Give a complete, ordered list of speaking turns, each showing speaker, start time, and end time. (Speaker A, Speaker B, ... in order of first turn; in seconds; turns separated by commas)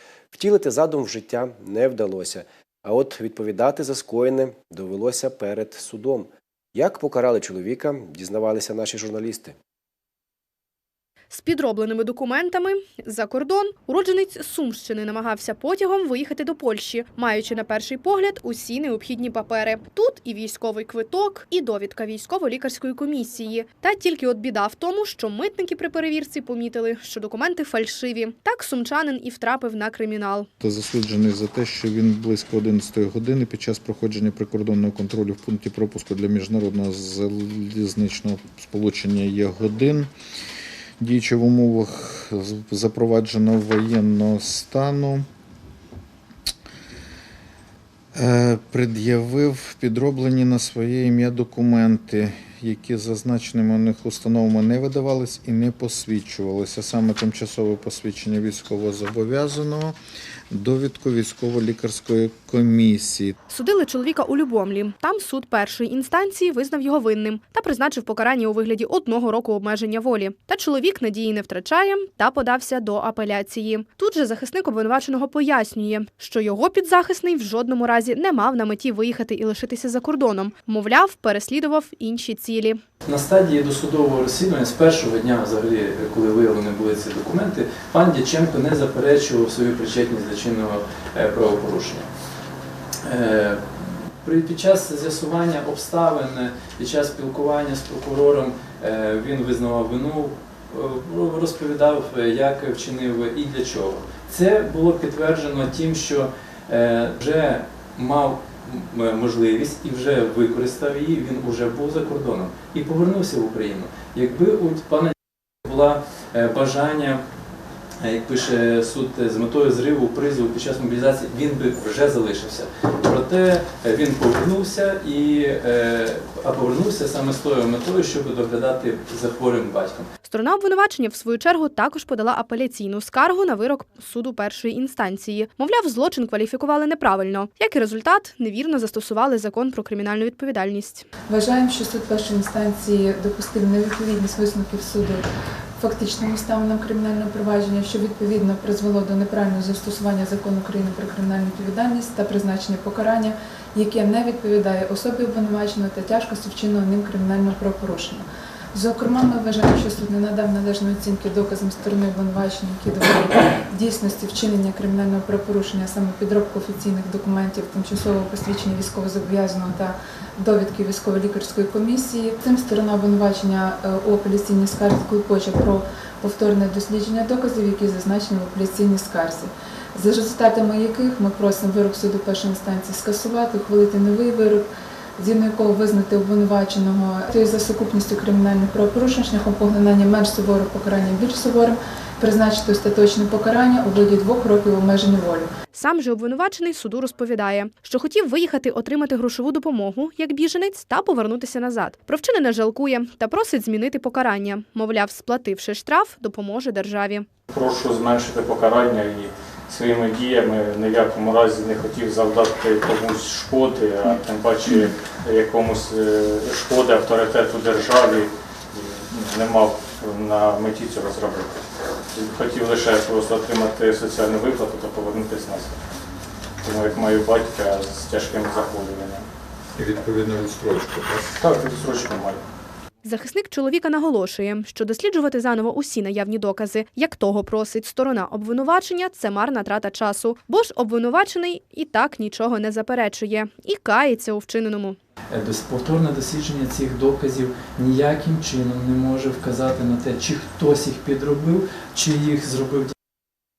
Speaker A: 0.3-9.6, Speaker B: 11.3-30.5, Speaker C: 30.6-40.1, Speaker C: 41.0-45.2, Speaker C: 48.1-60.0, Speaker C: 60.5-63.3, Speaker B: 63.5-82.8, Speaker D: 83.0-92.1, Speaker D: 93.0-117.2, Speaker D: 118.0-130.1, Speaker B: 130.2-141.1, Speaker E: 141.3-145.2, Speaker E: 145.8-195.5, Speaker B: 195.7-207.2, Speaker F: 207.5-221.6, Speaker F: 222.1-225.8, Speaker F: 226.6-229.2, Speaker C: 229.8-231.3, Speaker F: 231.4-232.4, Speaker B: 233.0-245.0, Speaker D: 245.3-252.9